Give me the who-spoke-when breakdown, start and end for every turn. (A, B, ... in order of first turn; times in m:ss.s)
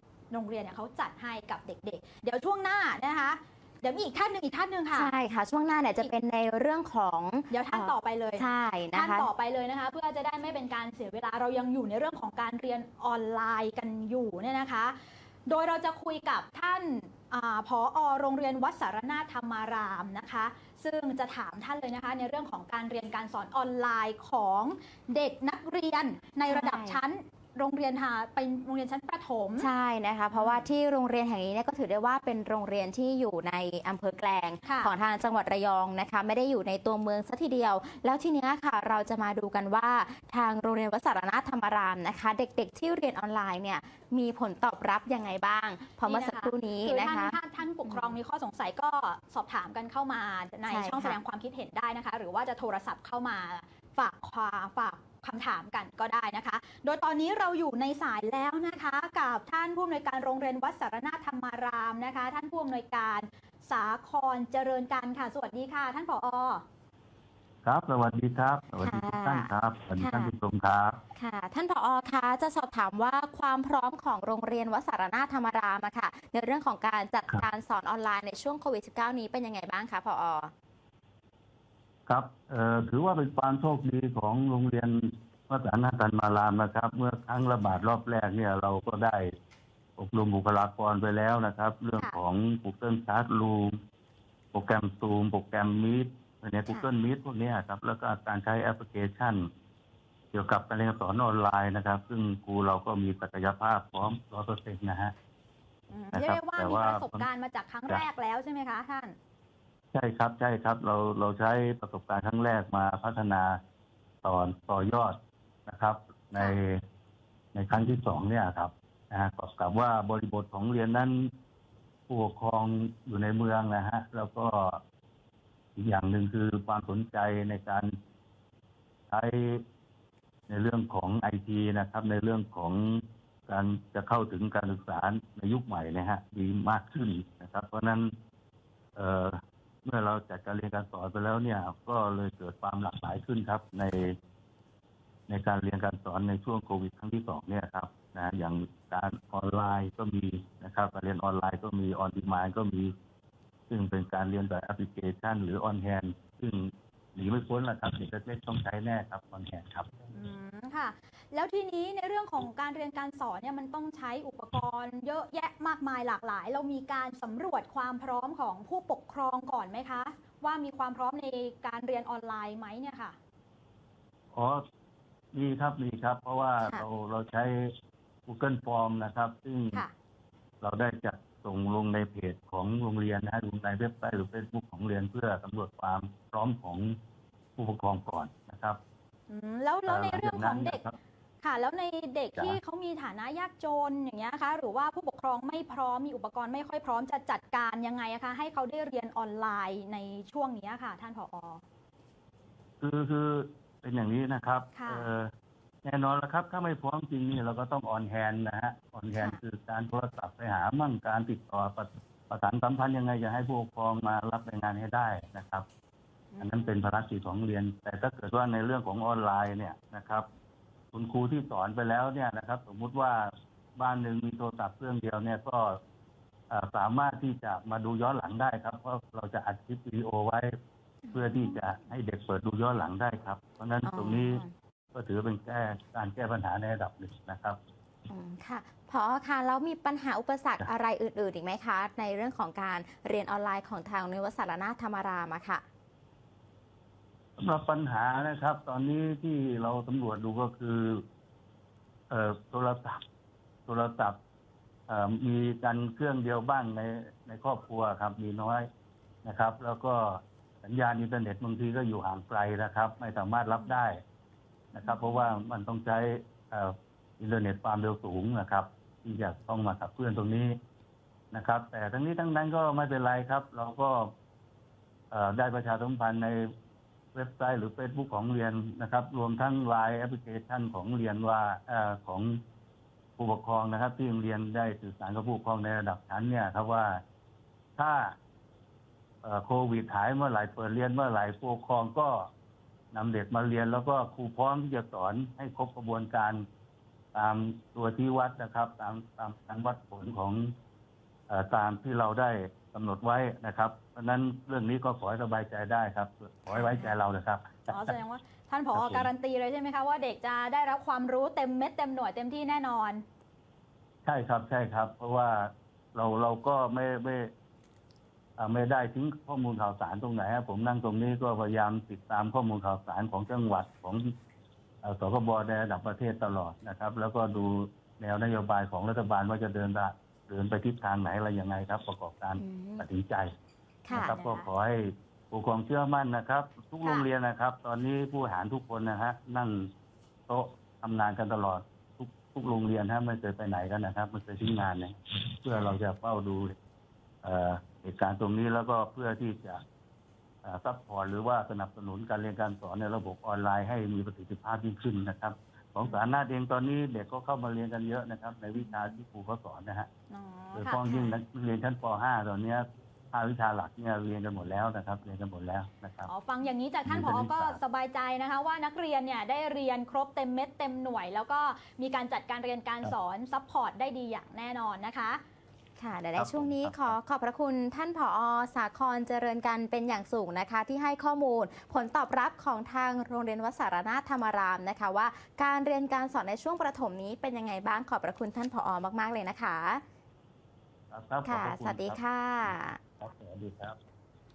0:00.3-0:05.1 A
0:04.9-0:09.3 B
0:07.5-0:29.7 A
0:26.5-0:27.0 B
0:29.6-0:48.2 B
0:30.3-0:30.7 A
0:34.6-0:34.9 A
0:46.0-1:06.6 A
0:50.7-0:51.2 B
1:07.6-1:11.0 C
1:08.8-1:10.3 B
1:11.2-1:20.5 B
1:22.1-1:29.3 C
1:30.0-1:33.8 C
1:34.5-1:39.5 C
1:40.3-1:45.1 C
1:45.9-1:49.2 A
1:46.1-1:47.2 C
1:49.9-1:53.6 C
1:54.2-1:56.8 C
1:57.5-2:01.3 C
2:02.1-2:04.8 C
2:05.8-2:07.9 C
2:09.1-2:09.6 C
2:10.5-2:18.1 C
2:19.0-2:24.2 C
2:25.3-2:32.9 C
2:33.7-2:39.9 C
2:40.1-2:53.2 A
2:54.3-2:54.6 C
2:55.3-2:57.7 C
2:58.3-2:59.8 C
3:00.6-3:07.0 C
3:07.6-3:08.8 C
3:09.3-3:10.8 A
3:09.9-3:11.0 C
3:11.4-3:21.6 A
3:22.8-3:25.3 C
3:24.7-3:25.1 A
3:25.8-3:35.6 C
3:36.3-3:36.8 A
3:36.4-3:40.2 C
3:40.9-3:45.8 C
3:46.5-3:50.5 C
3:51.0-3:51.6 B
3:51.1-3:57.6 C
3:53.8-3:54.5 B
3:58.1-4:05.6 B
4:07.4-4:11.0 C
4:12.1-4:13.0 C
4:13.7-4:14.2 C
4:14.9-4:18.7 C
4:19.2-4:24.0 C
4:24.7-4:30.6 C
4:31.3-4:34.1 C
4:35.1-4:36.4 C
4:37.1-4:42.4 C
4:43.2-4:47.0 C
4:47.8-4:48.2 C
4:49.2-4:52.3 C
4:52.9-4:56.5 C
4:57.1-5:00.5 C
5:01.3-5:08.0 C
5:06.5-5:06.9 A
5:07.7-5:13.0 A
5:08.7-5:09.1 C
5:14.0-5:17.3 C
5:18.4-5:24.1 C
5:24.8-5:33.3 C
5:32.4-5:32.9 B
5:33.9-5:34.1 B
5:33.9-5:39.7 C
5:34.0-5:34.5 A
5:40.3-5:46.5 C
5:47.2-5:49.6 C
5:50.4-5:59.9 C
6:00.1-6:01.1 A
6:00.5-6:06.1 C
6:06.1-6:15.2 A
6:06.9-6:07.6 C
6:15.8-6:29.8 B
6:16.2-6:17.0 C
6:30.9-6:33.8 C
6:31.2-6:32.8 B